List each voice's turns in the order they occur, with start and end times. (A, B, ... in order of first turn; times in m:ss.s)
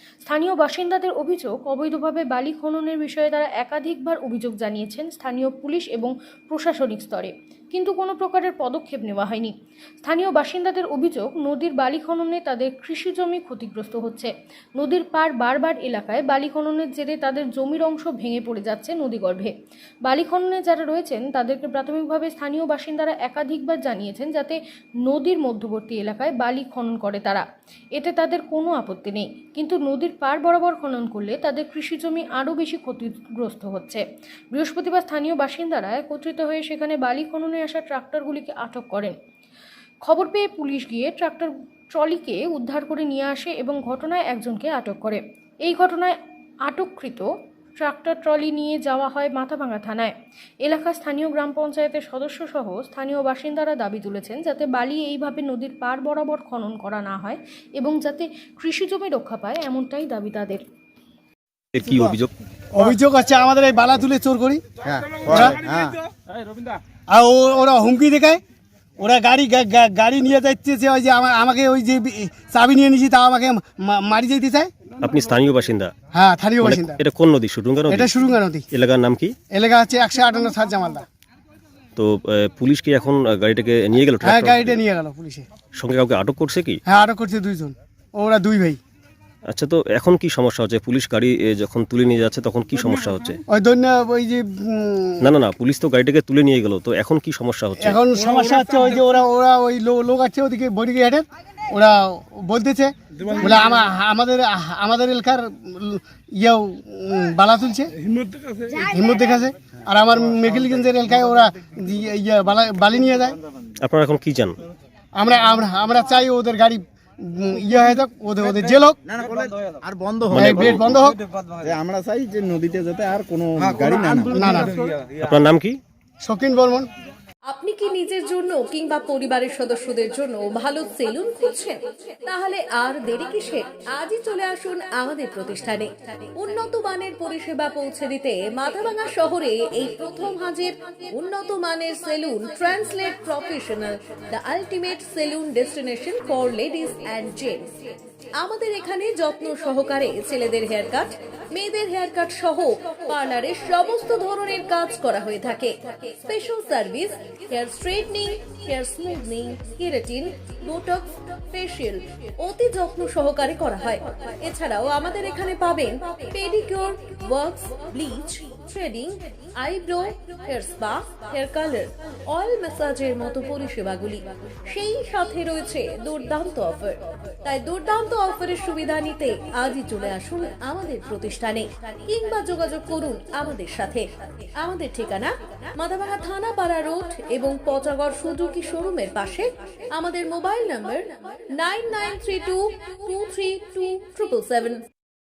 0:00.3-0:19.5 A
0:20.0-0:27.4 A
0:28.0-0:34.0 A
0:34.5-0:39.2 A
0:40.1-0:50.1 A
0:50.6-1:00.6 A
1:01.7-1:02.3 B
1:01.8-1:02.2 C
1:02.7-1:04.6 C
1:04.8-1:06.0 D
1:05.3-1:05.6 C
1:07.1-1:08.4 C
1:09.0-1:14.7 C
1:15.0-1:15.9 B
1:16.1-1:17.0 C
1:16.6-1:18.1 B
1:17.9-1:18.6 C
1:18.7-1:19.4 B
1:19.5-1:21.0 C
1:22.0-1:24.8 B
1:24.2-1:25.5 C
1:25.8-1:26.8 B
1:26.9-1:28.8 C
1:29.5-1:33.4 B
1:33.5-1:35.3 C
1:35.2-1:38.0 B
1:37.8-1:47.9 C
1:48.7-1:53.4 C
1:53.8-1:54.6 B
1:55.2-1:59.0 C
1:59.1-2:01.1 D
2:00.3-2:00.8 B
2:00.3-2:01.2 C
2:01.6-2:04.7 D
2:04.3-2:04.8 C
2:05.2-2:05.8 B
2:06.2-2:06.9 C
2:07.5-2:27.7 E
2:28.4-3:04.0 E
3:04.6-3:14.8 E